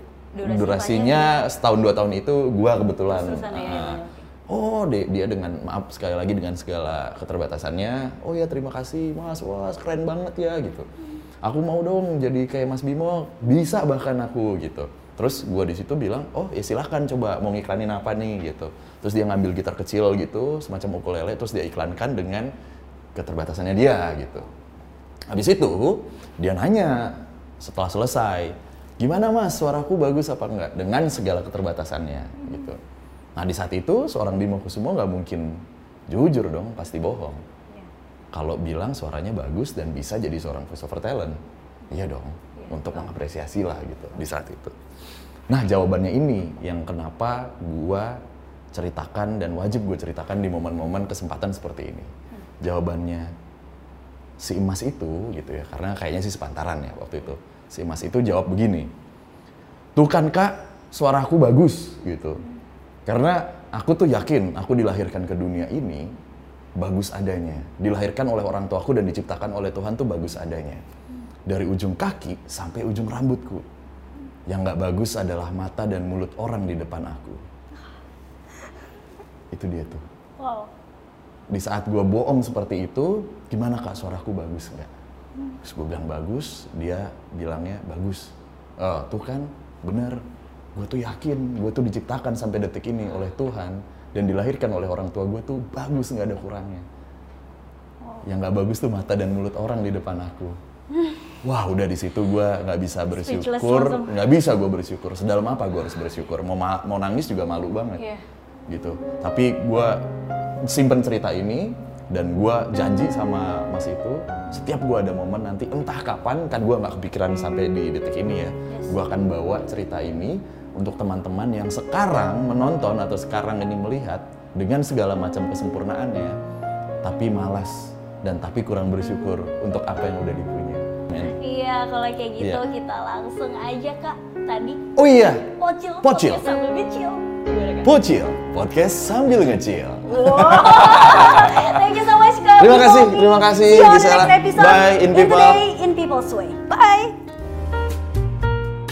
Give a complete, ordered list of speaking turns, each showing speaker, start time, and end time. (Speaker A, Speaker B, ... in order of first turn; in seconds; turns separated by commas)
Speaker A: 0.3-1.5, Speaker B: 0.4-10.9, Speaker A: 3.1-4.3, Speaker B: 11.4-22.5, Speaker B: 23.1-24.5, Speaker B: 25.3-32.8, Speaker A: 32.4-32.7, Speaker B: 33.4-37.4, Speaker B: 38.3-44.7, Speaker A: 42.6-43.1, Speaker B: 45.5-48.2, Speaker B: 48.7-53.3, Speaker B: 54.4-58.9, Speaker B: 60.0-62.4, Speaker B: 63.1-66.1, Speaker B: 66.8-70.8, Speaker B: 71.5-73.7, Speaker B: 74.5-77.4, Speaker B: 79.5-80.0, Speaker A: 80.4-80.7, Speaker B: 81.5-84.9, Speaker B: 85.6-90.2, Speaker B: 90.8-96.9, Speaker A: 98.0-98.3, Speaker B: 98.2-100.6, Speaker B: 101.4-108.0, Speaker A: 103.1-104.2, Speaker A: 108.0-108.2, Speaker B: 108.7-110.0, Speaker B: 110.6-126.4, Speaker A: 118.7-118.9, Speaker B: 127.0-131.3, Speaker A: 131.2-134.8, Speaker B: 135.0-135.5, Speaker A: 135.5-137.9, Speaker B: 136.0-136.4, Speaker B: 137.8-141.8, Speaker A: 140.1-147.2, Speaker B: 142.6-145.6